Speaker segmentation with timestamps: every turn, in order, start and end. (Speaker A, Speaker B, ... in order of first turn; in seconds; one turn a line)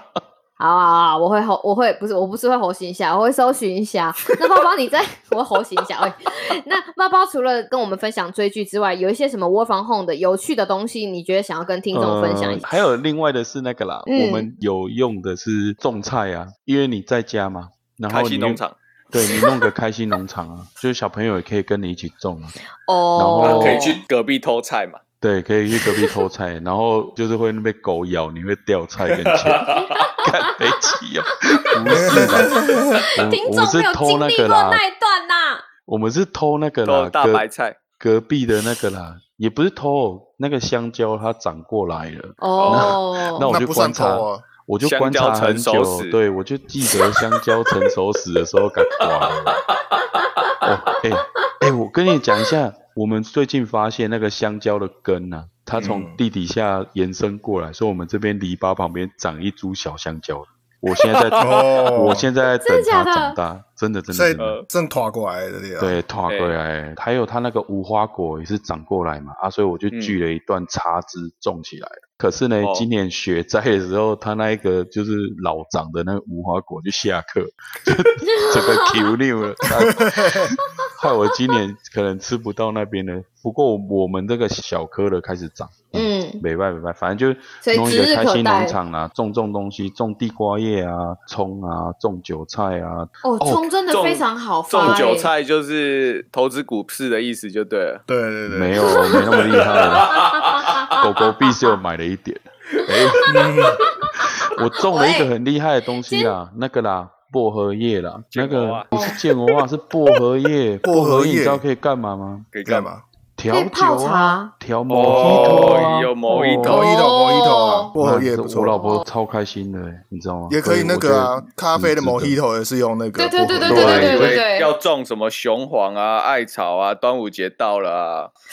Speaker A: 0.6-12.8
Speaker B: 11.9-22.6
Speaker A: 14.1-14.5
Speaker C: 18.1-18.8
Speaker A: 19.1-19.6
Speaker A: 22.9-24.0
Speaker B: 23.1-23.9
Speaker C: 23.4-25.0
Speaker B: 25.2-34.8
Speaker C: 29.1-30.0
Speaker A: 31.9-35.6
Speaker D: 32.0-33.0
Speaker B: 35.9-49.6
Speaker C: 36.8-37.8
Speaker A: 42.4-43.5
Speaker C: 42.6-43.0
Speaker D: 43.5-44.5
Speaker C: 44.8-46.2
Speaker B: 50.6-64.6
Speaker D: 55.8-56.2
Speaker C: 61.1-61.6
Speaker D: 61.4-62.3
Speaker A: 62.6-63.4
Speaker D: 64.1-66.0
Speaker C: 64.4-64.6
Speaker B: 65.8-93.7
Speaker C: 66.3-66.5
Speaker C: 69.9-70.2
Speaker C: 72.6-72.9
Speaker A: 78.2-79.0
Speaker D: 80.1-80.3
Speaker A: 85.9-86.4
Speaker A: 87.6-88.8
Speaker A: 93.2-95.3
Speaker C: 93.9-98.0
Speaker D: 98.1-99.6
Speaker B: 98.5-103.3
Speaker A: 98.8-99.4
Speaker C: 99.8-100.8
Speaker A: 100.0-101.0
Speaker A: 103.2-104.1
Speaker D: 103.2-103.8
Speaker B: 104.1-112.5
Speaker A: 104.8-105.3
Speaker A: 106.0-106.3
Speaker C: 108.3-108.9
Speaker A: 108.9-109.2
Speaker D: 110.8-111.6
Speaker C: 112.5-112.9
Speaker D: 112.6-113.0
Speaker B: 113.4-116.9
Speaker A: 113.5-114.5
Speaker C: 114.9-116.8
Speaker A: 115.6-115.9
Speaker D: 116.6-118.8
Speaker A: 116.7-117.9
Speaker B: 118.0-122.4
Speaker A: 118.8-119.0
Speaker D: 120.5-123.9
Speaker A: 123.2-124.7
Speaker B: 123.6-124.4
Speaker C: 123.6-128.3